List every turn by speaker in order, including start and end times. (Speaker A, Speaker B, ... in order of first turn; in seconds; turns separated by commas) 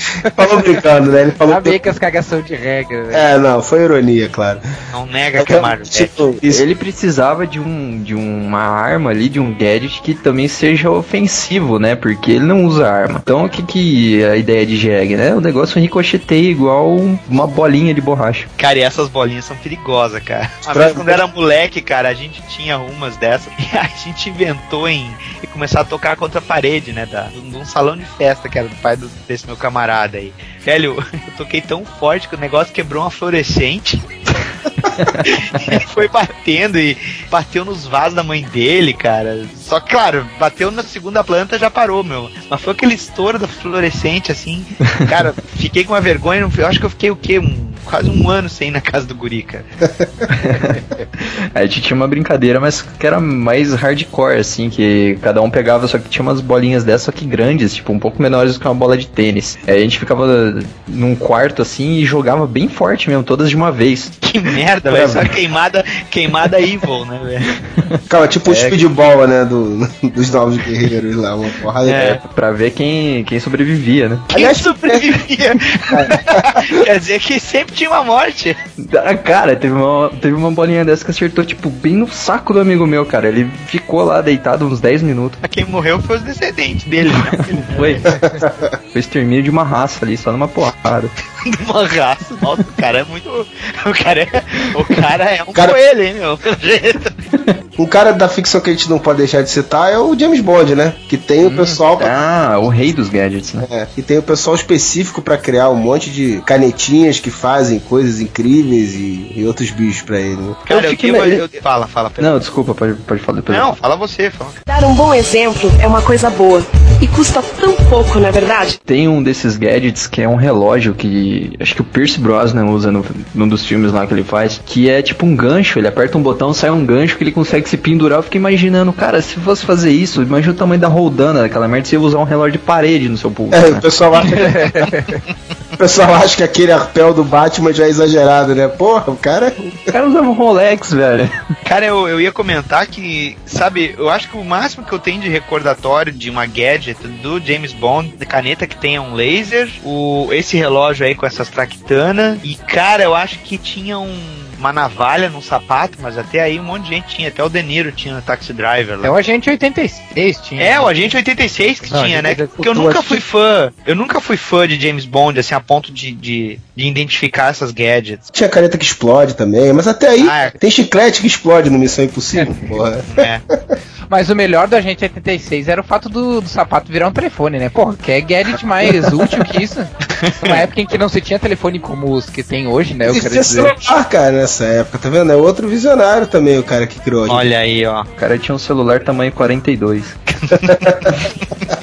Speaker A: 0.3-1.8, Speaker B: 1.5-3.2, Speaker A: 3.1-4.6, Speaker C: 4.9-6.2, Speaker A: 5.4-6.7, Speaker D: 6.5-18.5, Speaker C: 18.6-34.1, Speaker A: 20.7-21.2, Speaker D: 34.9-35.3, Speaker C: 35.3-49.7, Speaker D: 50.3-50.8, Speaker D: 51.5-64.2, Speaker C: 64.2-67.6, Speaker A: 64.8-65.3, Speaker A: 68.1-72.2, Speaker D: 68.5-68.8, Speaker C: 71.8-72.2, Speaker D: 72.0-74.3, Speaker C: 74.3-78.6, Speaker A: 74.3-75.1, Speaker A: 75.9-76.8, Speaker D: 78.8-85.4, Speaker C: 85.4-88.1, Speaker D: 87.7-88.1, Speaker A: 88.1-88.7, Speaker D: 88.9-91.1, Speaker C: 91.4-97.2, Speaker A: 97.8-102.2, Speaker B: 101.5-101.8, Speaker D: 102.0-103.7, Speaker A: 103.6-110.7, Speaker C: 110.7-112.4, Speaker D: 110.7-111.4, Speaker D: 112.2-113.7, Speaker C: 113.5-114.6, Speaker E: 114.7-118.8, Speaker D: 118.8-133.8, Speaker A: 133.5-134.7, Speaker B: 134.4-135.2, Speaker A: 135.8-139.9, Speaker D: 139.9-141.3, Speaker C: 141.7-159.2, Speaker B: 159.0-160.9, Speaker C: 160.6-168.2, Speaker B: 161.9-162.9, Speaker A: 162.6-163.2, Speaker A: 168.3-173.3, Speaker C: 170.2-170.6, Speaker B: 172.4-172.8, Speaker C: 173.1-173.4, Speaker B: 174.1-183.7, Speaker C: 180.2-180.6, Speaker A: 183.1-187.4, Speaker C: 187.3-188.1, Speaker D: 188.2-190.2, Speaker C: 190.3-191.2, Speaker A: 190.6-190.9